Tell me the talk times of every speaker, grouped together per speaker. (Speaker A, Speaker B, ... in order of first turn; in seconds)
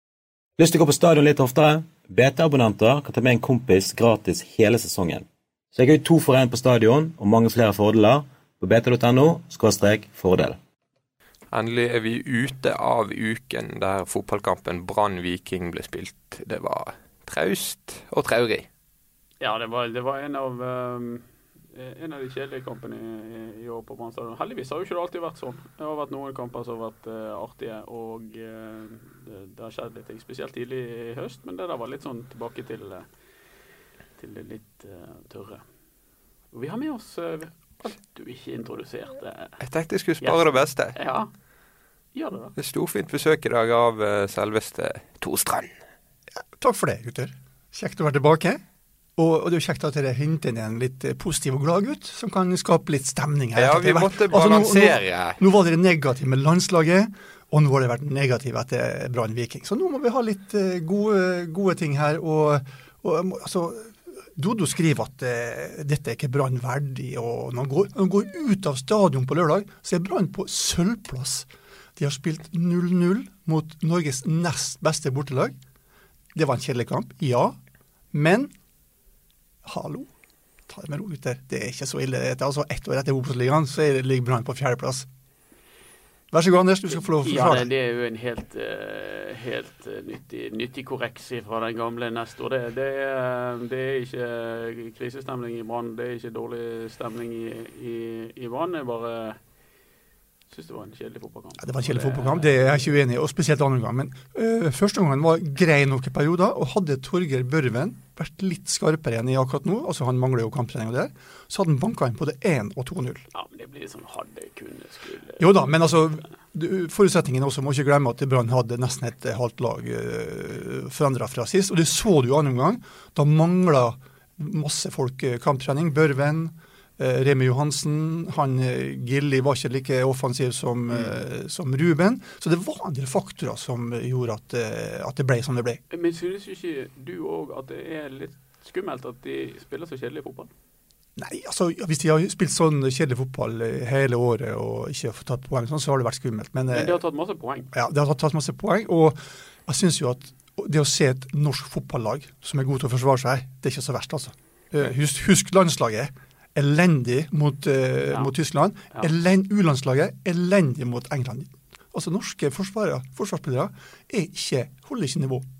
Speaker A: 0.6-10.6
Speaker B: 11.5-18.7, 39.6-41.0, 42.6-45.7, 53.5-55.4
Speaker C: 19.4-33.0, 34.2-35.6, 36.5-39.5, 40.2-41.3, 42.1-42.5, 87.1-99.4, 100.5-102.9, 113.3-115.7, 135.9-140.5, 146.7-147.7
Speaker D: 46.6-48.6, 49.2-75.5, 76.3-77.6, 78.1-78.5, 79.6-80.1, 80.7-85.1, 86.3-87.7, 101.6-113.2, 115.4-135.8, 141.2-147.0, 147.7-165.4